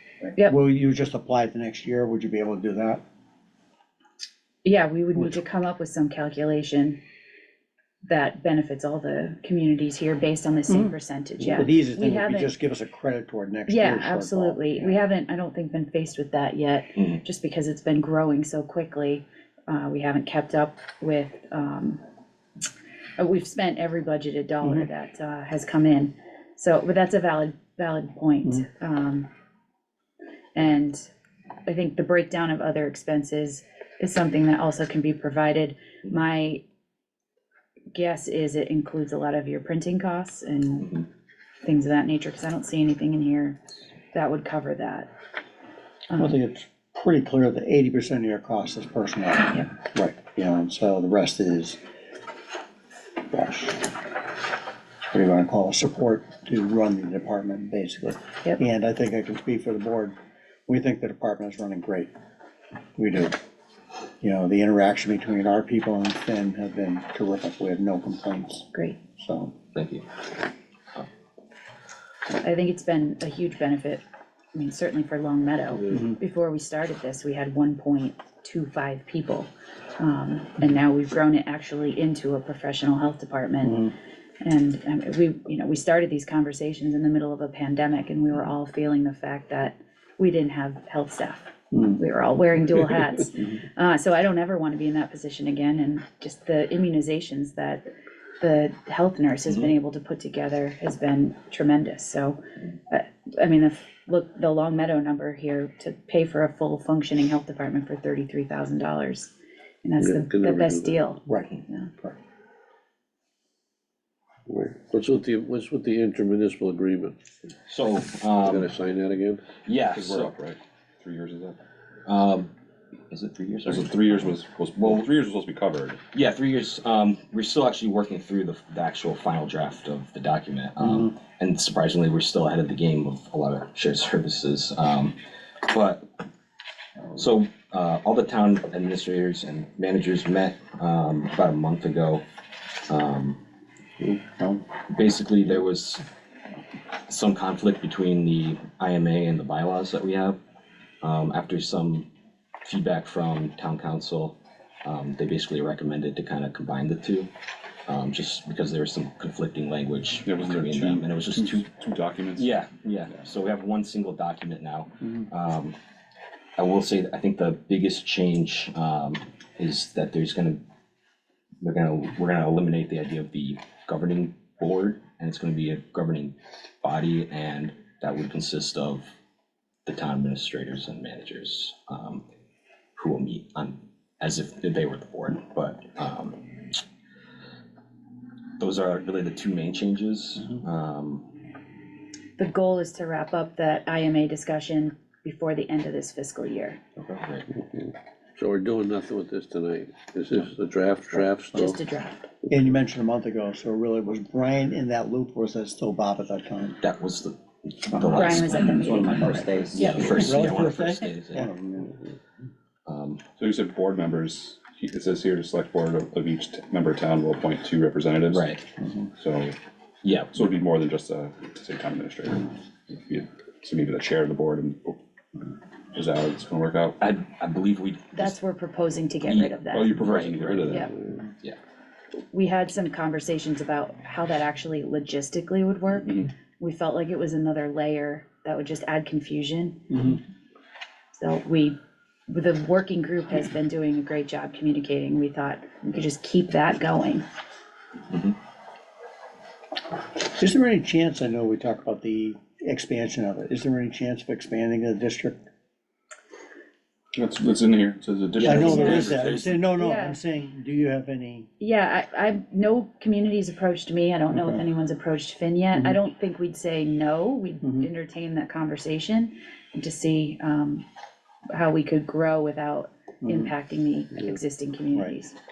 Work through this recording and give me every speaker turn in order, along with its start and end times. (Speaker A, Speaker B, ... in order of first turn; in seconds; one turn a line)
Speaker A: 0.2-3.0
Speaker B: 4.6-7.0
Speaker B: 8.1-12.5
Speaker A: 10.7-10.9
Speaker A: 11.5-15.0
Speaker B: 13.7-22.0
Speaker B: 23.2-29.3
Speaker A: 24.6-24.9
Speaker B: 30.5-31.1
Speaker B: 31.6-36.6
Speaker B: 37.9-40.9
Speaker C: 40.8-41.0
Speaker B: 41.6-43.6
Speaker B: 44.1-45.1
Speaker B: 46.1-46.4
Speaker A: 46.2-51.8
Speaker A: 53.3-53.9
Speaker A: 55.1-60.1
Speaker A: 60.7-62.1
Speaker A: 63.0-63.3
Speaker A: 64.2-68.7
Speaker B: 68.7-69.0
Speaker A: 69.2-69.5
Speaker C: 69.7-70.0
Speaker B: 72.4-74.0
Speaker B: 74.5-97.8
Speaker A: 83.6-83.9
Speaker B: 98.4-109.3
Speaker B: 109.8-111.9
Speaker D: 110.0-110.9
Speaker A: 111.2-112.1
Speaker D: 114.5-117.2
Speaker C: 117.7-118.7
Speaker D: 118.4-119.4
Speaker C: 119.7-120.3
Speaker E: 119.8-121.6
Speaker C: 122.0-122.5
Speaker C: 123.1-125.0
Speaker E: 123.6-126.0
Speaker C: 126.1-136.0
Speaker C: 137.1-142.2
Speaker C: 142.9-143.4
Speaker A: 144.2-144.5
Speaker C: 144.9-146.0
Speaker C: 147.1-150.3
Speaker C: 151.0-152.1
Speaker C: 152.6-157.3
Speaker C: 157.9-161.7
Speaker E: 160.2-162.5
Speaker C: 162.3-165.7
Speaker C: 166.6-170.6
Speaker C: 171.6-179.1
Speaker C: 179.8-182.2
Speaker C: 182.9-186.7
Speaker C: 188.6-191.3
Speaker B: 192.4-196.8
Speaker C: 197.0-197.4
Speaker D: 198.4-201.8
Speaker B: 201.5-202.3
Speaker A: 202.5-206.8
Speaker C: 206.8-211.5
Speaker A: 207.9-212.0
Speaker B: 208.1-210.4
Speaker E: 208.8-210.2
Speaker C: 212.8-213.2
Speaker E: 213.4-218.6
Speaker C: 218.3-218.6
Speaker E: 219.2-219.6
Speaker C: 220.0-220.3
Speaker E: 220.3-225.0
Speaker E: 225.9-227.0
Speaker C: 227.0-228.3
Speaker B: 228.1-230.0
Speaker C: 229.2-230.9
Speaker E: 229.7-231.2
Speaker B: 232.3-240.1
Speaker B: 241.2-241.8
Speaker B: 242.3-247.2
Speaker C: 248.1-248.3
Speaker A: 250.2-255.4
Speaker E: 257.1-259.2
Speaker C: 258.3-259.6
Speaker A: 258.4-261.5
Speaker B: 258.6-259.1
Speaker B: 259.8-260.2
Speaker B: 261.6-270.8
Speaker A: 264.3-264.6
Speaker B: 271.5-275.3
Speaker A: 273.2-273.5